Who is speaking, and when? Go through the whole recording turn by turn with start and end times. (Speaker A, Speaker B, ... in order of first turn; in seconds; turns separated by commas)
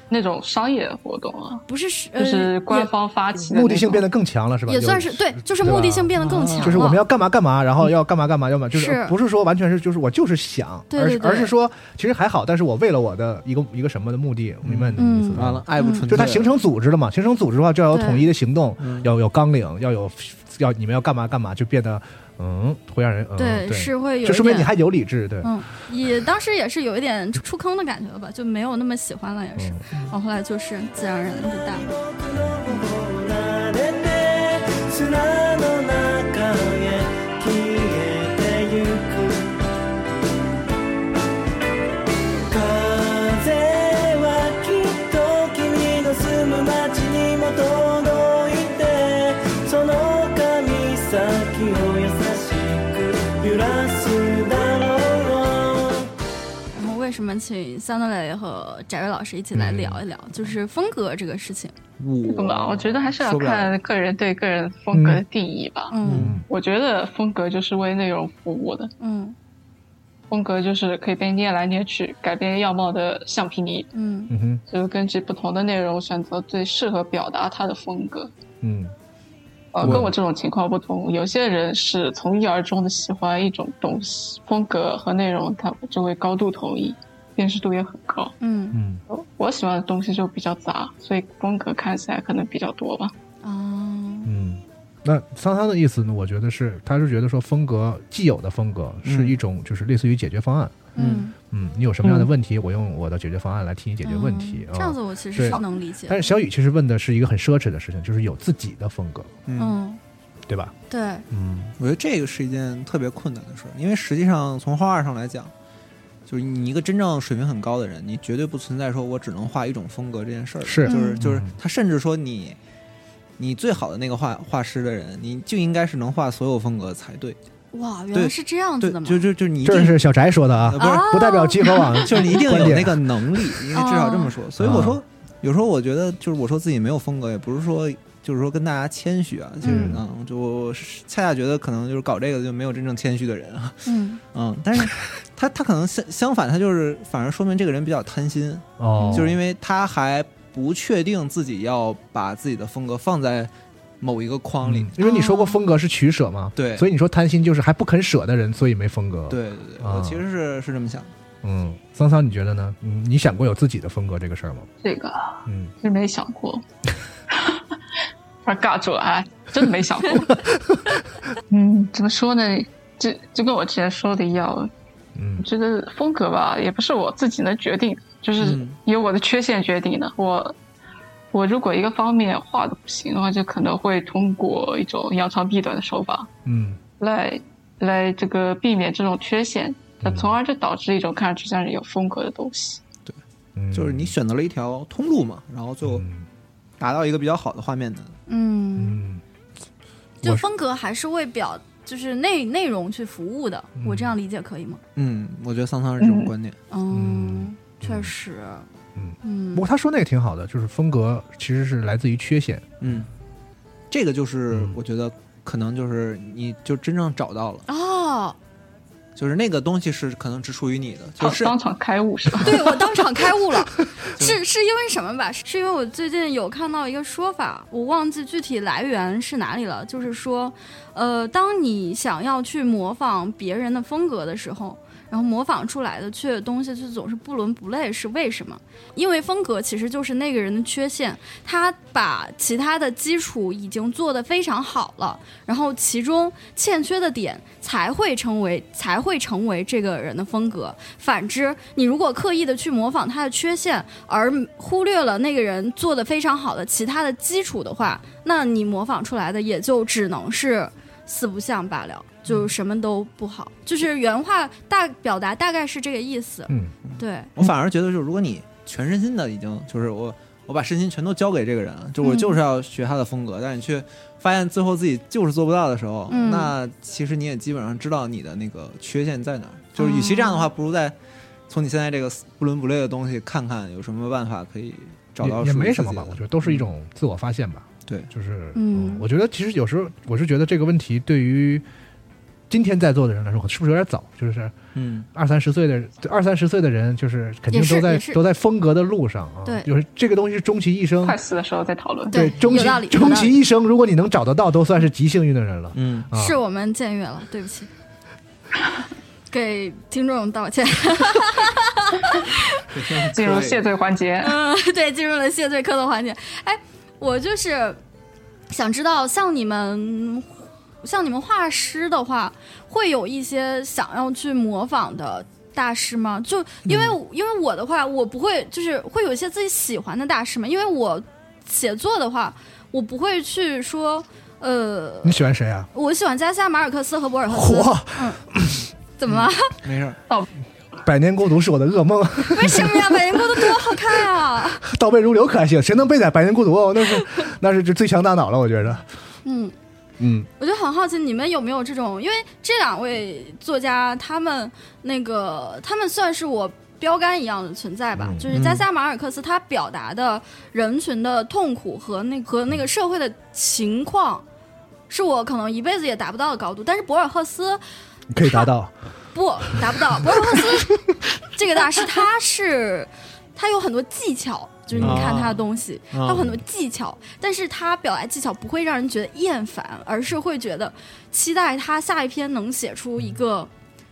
Speaker A: 0.1-1.6, Speaker B: 1.7-2.9, Speaker A: 2.1-4.0, Speaker C: 3.5-25.5, Speaker B: 4.7-7.0, Speaker D: 6.2-6.7, Speaker B: 8.7-9.2, Speaker B: 10.9-11.5, Speaker D: 14.6-16.5, Speaker B: 15.0-16.1, Speaker B: 17.9-18.3, Speaker D: 18.8-19.1, Speaker B: 23.4-24.7, Speaker B: 25.4-31.9, Speaker C: 29.6-29.9, Speaker E: 31.4-39.6, Speaker C: 32.4-32.6, Speaker E: 42.5-56.1, Speaker B: 56.7-61.7, Speaker C: 59.5-60.0, Speaker D: 62.0-63.8, Speaker A: 62.2-68.9, Speaker C: 64.9-65.2, Speaker B: 65.9-66.3, Speaker D: 66.0-66.4, Speaker C: 66.1-66.4, Speaker B: 69.0-69.3, Speaker A: 70.3-73.9, Speaker B: 73.9-74.3, Speaker C: 74.3-74.6, Speaker A: 74.7-78.3, Speaker C: 78.6-78.9, Speaker A: 79.7-88.3, Speaker C: 79.8-80.1, Speaker B: 88.4-88.8, Speaker C: 88.7-89.0, Speaker A: 89.1-93.1, Speaker B: 93.4-94.3, Speaker C: 94.2-100.8, Speaker D: 99.0-99.4, Speaker B: 101.0-101.3, Speaker D: 101.0-101.2, Speaker C: 101.5-109.3, Speaker B: 104.0-106.2, Speaker D: 109.5-109.8, Speaker B: 109.6-110.0, Speaker C: 110.5-110.7, Speaker B: 110.9-111.2, Speaker C: 111.3-111.7, Speaker D: 111.8-115.5, Speaker D: 116.3-122.6, Speaker C: 120.6-121.5, Speaker B: 120.8-121.2, Speaker D: 123.4-127.4, Speaker B: 127.7-129.2, Speaker D: 128.1-130.0, Speaker C: 129.6-133.4, Speaker D: 130.6-131.1, Speaker B: 130.8-132.1, Speaker D: 132.0-154.9, Speaker B: 133.7-134.3, Speaker C: 134.6-135.0, Speaker B: 139.6-140.0, Speaker C: 139.6-140.0, Speaker B: 143.8-144.2, Speaker C: 148.8-149.4, Speaker B: 149.0-149.2, Speaker C: 154.6-160.2, Speaker B: 155.0-155.6, Speaker D: 156.6-156.9, Speaker D: 159.3-161.1, Speaker C: 161.4-164.7, Speaker A: 164.8-166.6, Speaker C: 165.4-165.7, Speaker A: 167.3-167.6, Speaker A: 168.4-170.4, Speaker A: 171.5-174.7, Speaker C: 175.2-175.4, Speaker A: 175.4-180.6, Speaker D: 178.4-178.8, Speaker A: 181.3-186.3, Speaker C: 186.4-186.8, Speaker A: 187.0-192.8, Speaker C: 190.0-190.3, Speaker C: 193.6-194.1, Speaker D: 193.7-196.1, Speaker C: 195.8-196.2, Speaker D: 196.8-198.2, Speaker B: 198.3-199.0, Speaker C: 198.8-199.2, Speaker B: 200.2-204.8, Speaker C: 203.8-204.1, Speaker D: 204.9-206.6, Speaker A: 206.0-206.3, Speaker B: 206.7-208.7, Speaker C: 206.9-208.1, Speaker C: 208.9-212.9, Speaker B: 209.2-209.6, Speaker D: 212.8-213.1, Speaker D: 213.9-217.6, Speaker C: 214.5-214.8, Speaker B: 217.7-218.3, Speaker D: 219.2-221.5, Speaker A: 221.2-222.7, Speaker B: 222.4-267.3, Speaker C: 266.5-266.7, Speaker D: 266.9-280.9, Speaker B: 272.0-272.4, Speaker B: 276.1-276.5, Speaker B: 279.8-280.5, Speaker D: 281.5-286.7, Speaker C: 285.2-291.6, Speaker B: 288.5-289.1, Speaker C: 292.5-294.5, Speaker D: 294.7-295.1, Speaker C: 295.1-301.2, Speaker B: 297.5-298.2, Speaker A: 301.0-302.3, Speaker B: 302.1-303.4, Speaker C: 302.1-306.4, Speaker D: 305.7-306.1, Speaker B: 306.1-307.7, Speaker B: 309.3-312.6, Speaker D: 312.7-313.6, Speaker A: 313.1-314.4, Speaker B: 314.2-317.8, Speaker B: 318.5-338.2, Speaker D: 326.6-327.0, Speaker C: 335.0-335.7, Speaker C: 337.3-338.6, Speaker B: 339.0-339.6, Speaker D: 339.1-340.0, Speaker C: 340.8-344.0, Speaker B: 342.3-344.6, Speaker C: 344.6-348.9, Speaker B: 349.2-349.5, Speaker C: 350.0-350.3, Speaker B: 350.4-364.2, Speaker C: 357.9-358.4, Speaker D: 358.3-358.6, Speaker B: 364.9-367.6, Speaker C: 368.1-368.7, Speaker B: 368.2-368.5, Speaker B: 369.1-383.5, Speaker C: 369.5-370.9, Speaker C: 374.7-375.2, Speaker D: 374.8-376.3